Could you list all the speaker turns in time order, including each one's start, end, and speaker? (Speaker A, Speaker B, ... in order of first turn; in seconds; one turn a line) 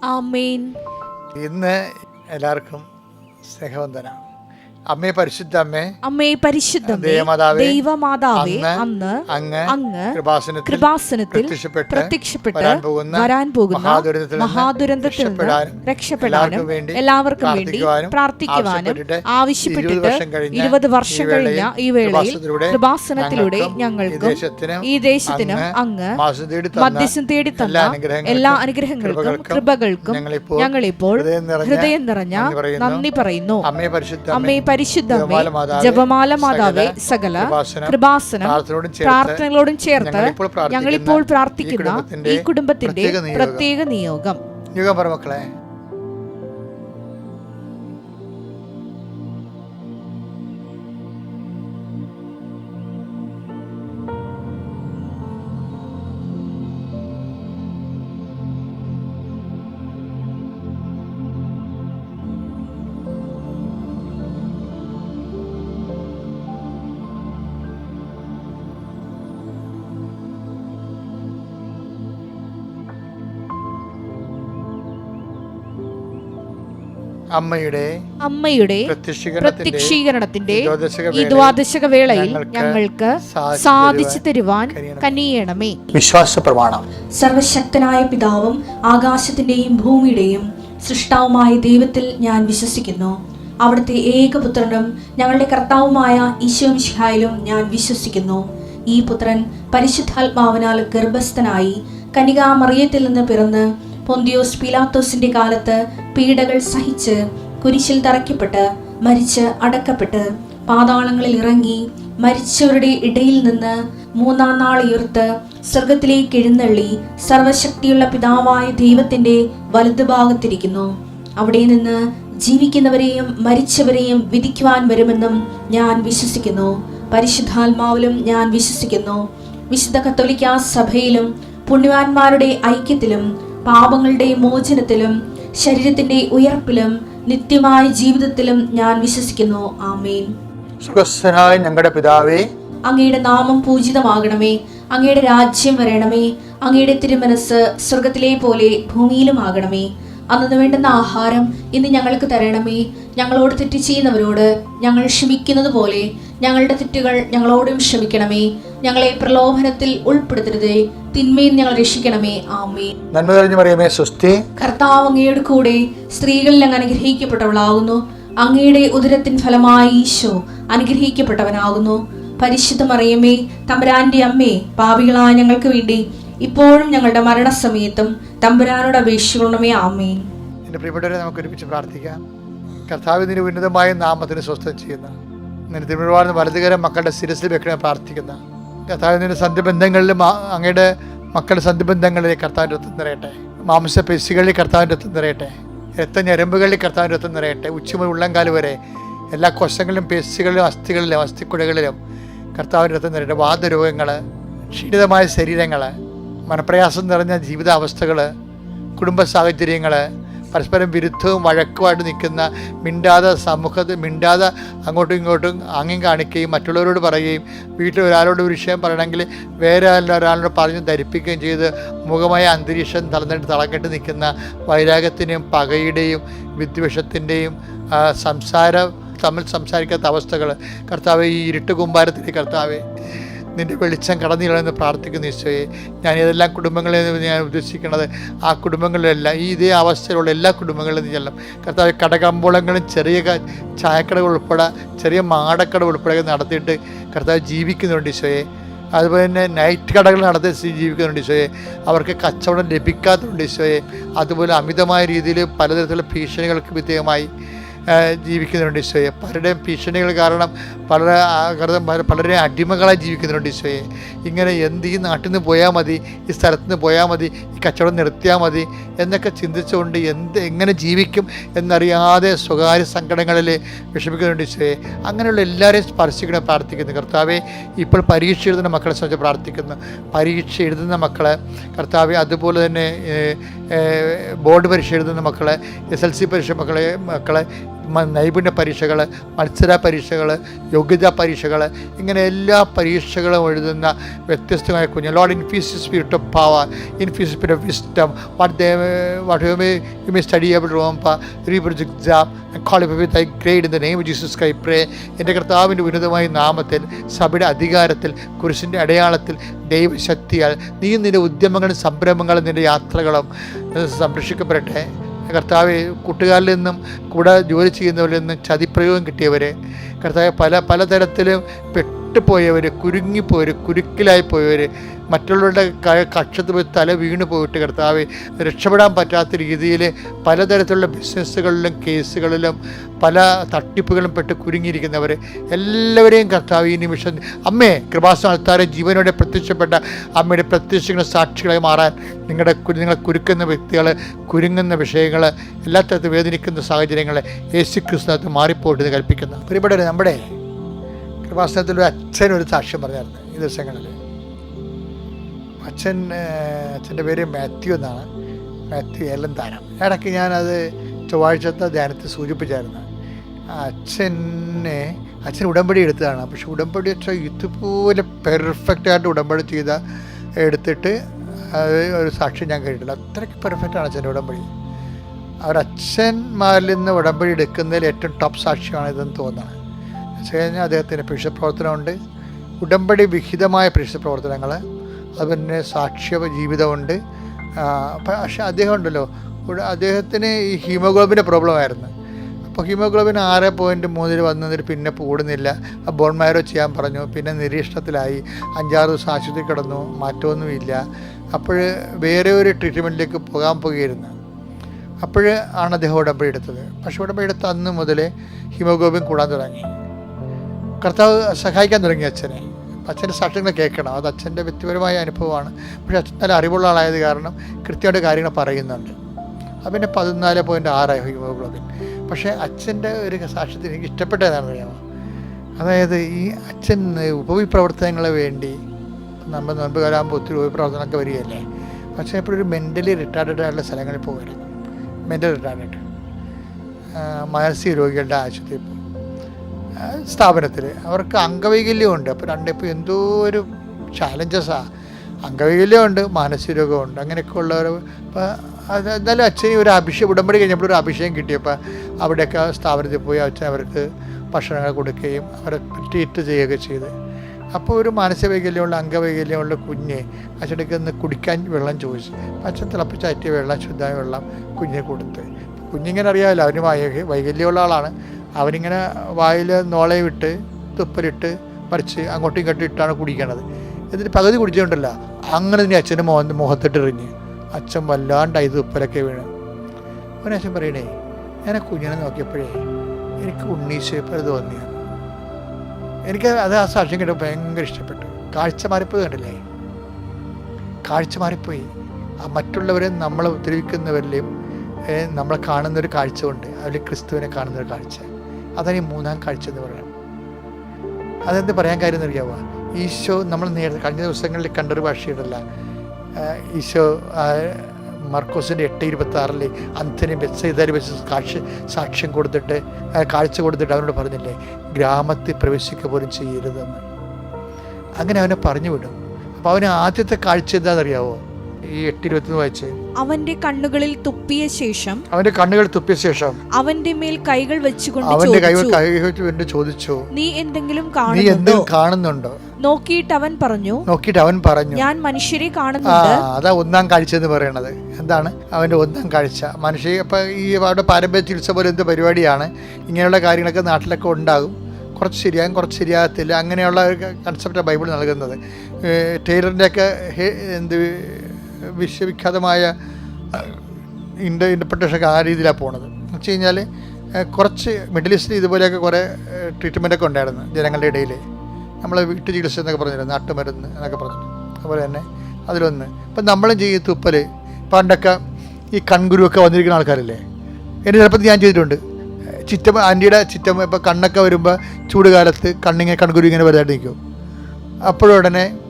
Speaker A: 0.1-0.8
Speaker B: 1.4-2.9
Speaker B: 3.5-4.2
Speaker B: 4.9-5.9
Speaker A: 6.0-10.2
Speaker B: 6.8-7.8
Speaker B: 8.4-33.0
Speaker A: 10.7-26.1
Speaker A: 26.8-33.7
Speaker B: 33.6-39.4
Speaker A: 34.3-44.4
Speaker B: 40.0-43.7
Speaker B: 44.8-45.5
Speaker B: 77.4-77.9
Speaker A: 78.2-85.8
Speaker B: 78.9-80.0
Speaker B: 80.5-85.2
Speaker B: 85.9-86.8
Speaker C: 87.2-140.3
Speaker B: 140.8-142.5
Speaker C: 142.9-162.9
Speaker B: 163.1-164.4
Speaker C: 164.6-180.3
Speaker B: 180.7-182.2
Speaker B: 182.9-185.2
Speaker B: 185.7-198.8
Speaker B: 199.3-202.0
Speaker B: 202.6-204.2
Speaker B: 204.7-205.9
Speaker B: 206.5-208.3
Speaker B: 209.0-232.8
Speaker B: 233.6-248.4
Speaker B: 249.0-257.3
Speaker B: 257.9-350.2
Speaker B: 351.3-354.0
Speaker B: 355.6-358.1
Speaker B: 358.7-362.9
Speaker B: 363.5-369.8
Speaker B: 370.4-371.0
Speaker B: 371.5-374.5
Speaker B: 375.4-379.6
Speaker B: 380.2-382.0
Speaker B: 382.6-384.6
Speaker B: 385.2-387.0
Speaker B: 387.6-391.9
Speaker B: 392.5-400.8
Speaker B: 401.4-404.1
Speaker B: 405.0-409.7
Speaker B: 410.8-418.9
Speaker B: 419.6-424.8
Speaker B: 425.6-428.6
Speaker B: 429.3-431.4
Speaker B: 432.0-434.5
Speaker B: 435.1-435.8
Speaker B: 437.0-438.8
Speaker B: 439.8-444.6
Speaker B: 445.3-456.9
Speaker B: 457.6-479.3
Speaker B: 480.2-480.9
Speaker B: 481.5-482.6
Speaker B: 483.2-484.7
Speaker B: 486.1-489.4
Speaker B: 490.9-491.7
Speaker B: 492.2-494.2
Speaker B: 494.9-499.9
Speaker B: 501.3-505.4
Speaker B: 506.2-516.8
Speaker B: 518.0-521.2
Speaker B: 521.8-522.8
Speaker A: 523.0-525.0
Speaker B: 525.1-526.4
Speaker A: 526.6-528.8
Speaker B: 528.0-530.1
Speaker A: 530.1-531.7
Speaker B: 531.1-532.4
Speaker A: 532.6-533.8
Speaker B: 533.9-534.9
Speaker A: 534.7-536.2
Speaker B: 535.9-552.7
Speaker B: 553.3-553.6
Speaker B: 554.2-556.6
Speaker B: 557.2-561.2
Speaker B: 561.8-568.2
Speaker B: 568.8-570.2
Speaker B: 570.9-571.8
Speaker B: 572.5-577.0
Speaker B: 577.9-578.5